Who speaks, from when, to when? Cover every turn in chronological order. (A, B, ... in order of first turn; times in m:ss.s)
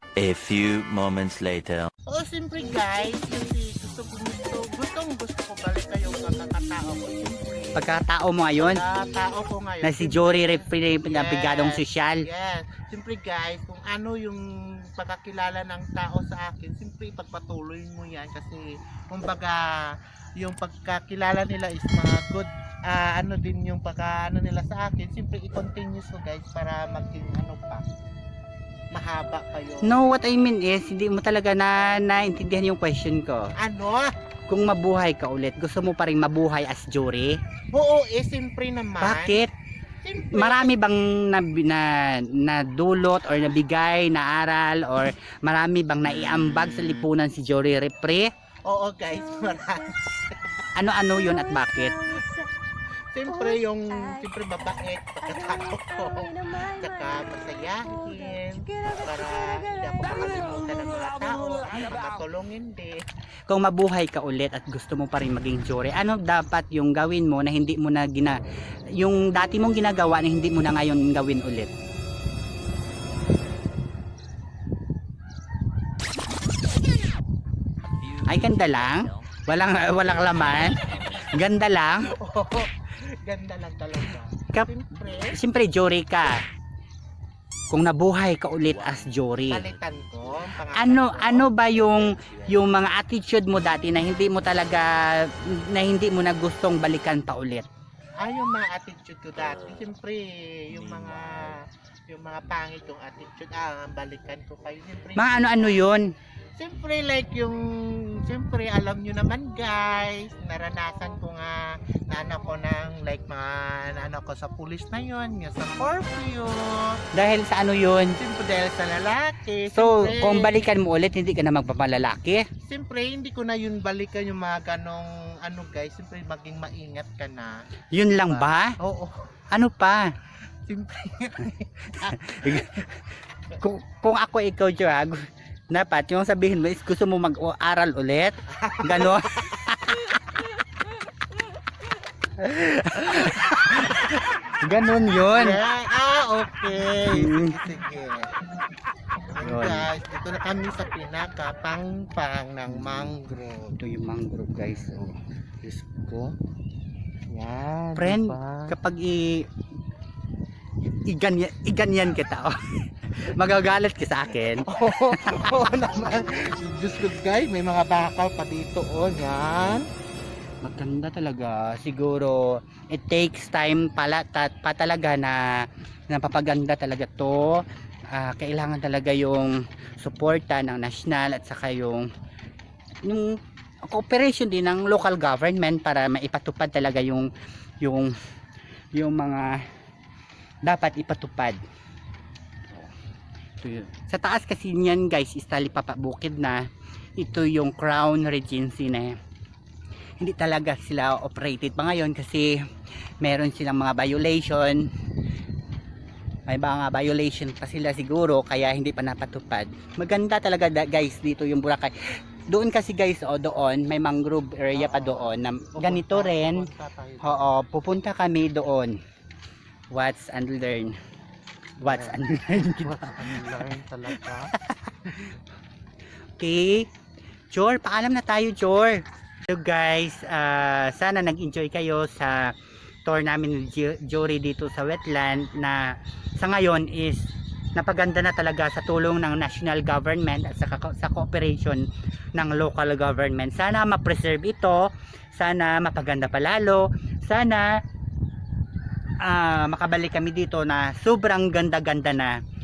0:00.2-0:01.9 A
0:02.1-0:07.9 B
0:07.7-0:08.8 C
0:08.6-0:27.8 B
0:09.8-0:12.2 C
0:28.9-0:30.0 B
0:29.8-0:33.5 C
0:33.6-0:34.1 B
0:34.5-0:37.4 C
0:37.7-0:39.4 B
0:39.0-0:39.5 C
0:40.0-0:40.7 B
0:40.3-0:48.3 C
0:48.7-0:50.6 B
0:50.7-0:52.1 C
0:53.1-1:03.0 B
1:03.5-1:08.4 C
1:09.0-1:11.7 C
1:18.0-1:19.3 A
1:18.2-1:22.1 C
1:20.3-1:21.3 A
1:22.0-1:25.4 B
1:25.3-1:26.4 C
1:27.7-1:29.6 C
1:28.7-1:29.9 A
1:29.5-1:31.5 B
1:30.7-1:37.7 C
1:31.8-1:32.6 A
1:38.2-1:45.8 B
1:41.1-1:41.4 A
1:45.2-1:46.1 C
1:46.6-1:57.0 B
1:57.1-1:58.2 C
1:58.2-2:00.6 B
1:59.7-2:02.5 C
2:02.6-2:07.5 B
2:07.9-2:08.8 C
2:08.3-2:09.3 B
2:09.5-2:10.1 C
2:10.7-2:12.7 B
2:12.1-2:13.0 C
2:13.6-2:20.2 C
2:18.6-2:19.6 B
2:22.4-2:25.6 C
2:25.3-2:28.3 B
2:27.1-2:27.6 C
2:29.3-2:33.8 B
2:29.4-2:29.9 C
2:32.8-2:33.1 C
2:33.8-2:35.1 C
2:35.6-2:36.3 B
2:37.3-2:38.7 B
2:38.0-2:39.4 C
2:41.1-2:45.7 C
2:44.6-2:49.8 B
2:50.6-3:02.1 C
3:03.0-3:07.3 C
3:07.8-3:08.1 C
3:08.9-3:09.6 C
3:10.6-3:11.6 C
3:13.6-3:16.6 C
3:17.2-3:19.1 C
3:20.2-3:22.6 C
3:23.2-3:24.9 C
3:26.5-3:31.9 C
3:32.5-3:36.6 C
3:34.7-3:37.4 B
3:37.2-3:38.9 C
3:39.9-3:40.9 C
3:41.8-3:43.6 C
3:41.8-3:44.5 B
3:45.1-3:45.3 B
3:46.4-3:46.9 C
3:47.5-4:01.8 C
4:02.4-4:07.7 C
4:09.2-4:12.4 C